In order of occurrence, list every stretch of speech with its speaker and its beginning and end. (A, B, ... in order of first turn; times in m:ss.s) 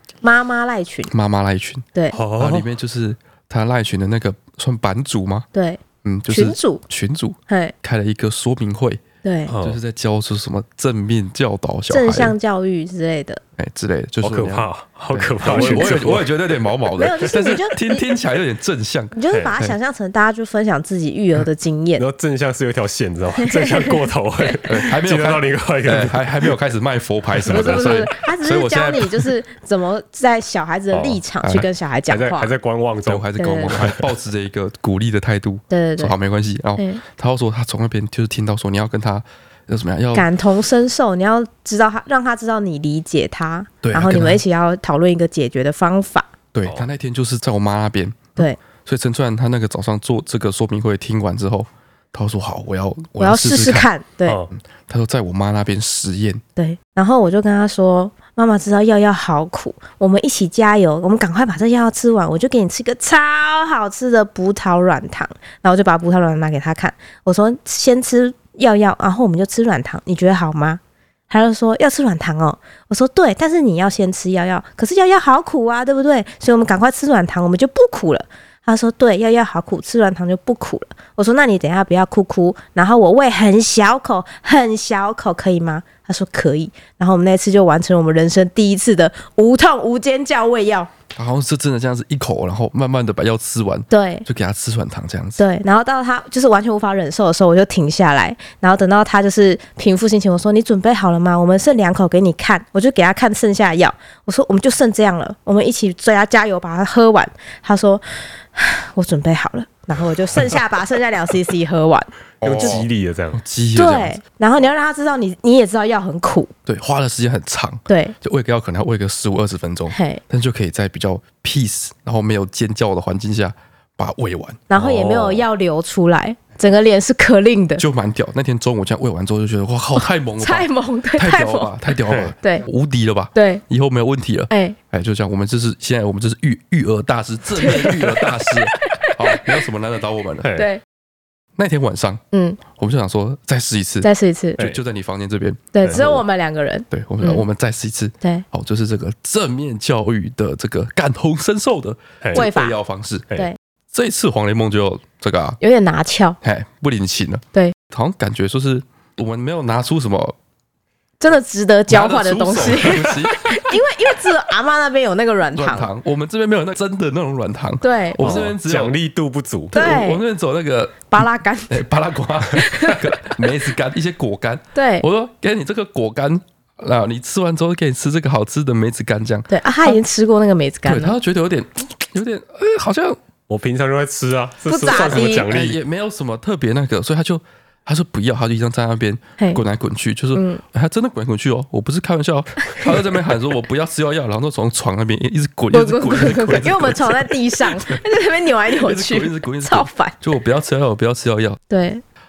0:00.2-0:01.1 A
0:01.1-0:05.5 B
0:02.1-0:02.7 C
0:05.5-0:06.8 A
0:06.0-0:09.0 B
0:07.5-0:07.7 A
0:09.2-0:09.5 A
0:09.5-0:09.8 C
0:09.6-0:12.3 B
0:11.9-0:13.4 A
0:13.6-0:19.8 B
0:14.2-0:16.3 C
0:15.4-0:16.0 A
0:17.0-0:18.0 A
0:19.1-0:22.0 A
0:22.0-0:26.5 C
0:23.4-0:24.5 A
0:24.6-0:29.3 B
0:27.4-0:28.1 C
0:27.5-0:32.5 A
0:30.9-0:31.2 C
0:32.1-0:34.1 C
0:33.0-0:40.3 B
0:33.4-0:33.8 A
0:35.7-0:36.1 A
0:40.1-0:46.3 A
0:43.8-0:44.4 B
0:46.5-0:53.9 B
0:53.2-0:54.4 A
0:54.2-0:54.5 C
0:54.5-0:56.4 B
0:56.6-1:30.9 A
1:31.1-1:35.4 B
1:33.9-1:34.2 A
1:35.4-1:52.8 A
1:52.4-1:54.2 B
1:52.4-1:53.4 C
1:53.7-1:56.5 A
1:56.6-2:05.3 B
1:57.9-1:58.1 A
1:59.9-2:00.2 A
2:04.7-2:07.8 A
2:04.8-2:05.3 C
2:07.8-2:20.5 B
2:10.0-2:11.7 A
2:12.1-2:12.3 C
2:13.3-2:13.6 A
2:14.5-2:14.8 A
2:17.6-2:19.6 A
2:20.4-2:20.7 C
2:20.5-2:20.8 A
2:21.6-2:26.2 B
2:22.3-2:22.6 A
2:24.0-2:24.6 A
2:25.7-2:27.4 A
2:26.9-2:33.3 B
2:32.3-2:32.8 A
2:33.9-2:35.6 B
2:35.6-2:36.4 A
2:36.4-2:40.4 B
2:41.2-2:45.9 A
2:41.9-2:43.6 B
2:45.5-2:49.0 B
2:47.8-2:48.4 A
2:48.2-2:49.7 C
2:49.7-2:50.2 A
2:49.7-3:00.0 B
2:51.1-2:51.8 A
2:52.5-2:53.2 A
2:54.7-2:55.0 A
2:59.5-3:01.1 A
3:00.8-3:03.2 B
3:03.5-3:05.8 C
3:04.6-3:05.5 A
3:04.9-3:18.0 B
3:10.3-3:10.6 A
3:12.6-3:12.9 A
3:15.7-3:20.2 A
3:18.7-3:21.6 B
3:21.7-3:22.0 A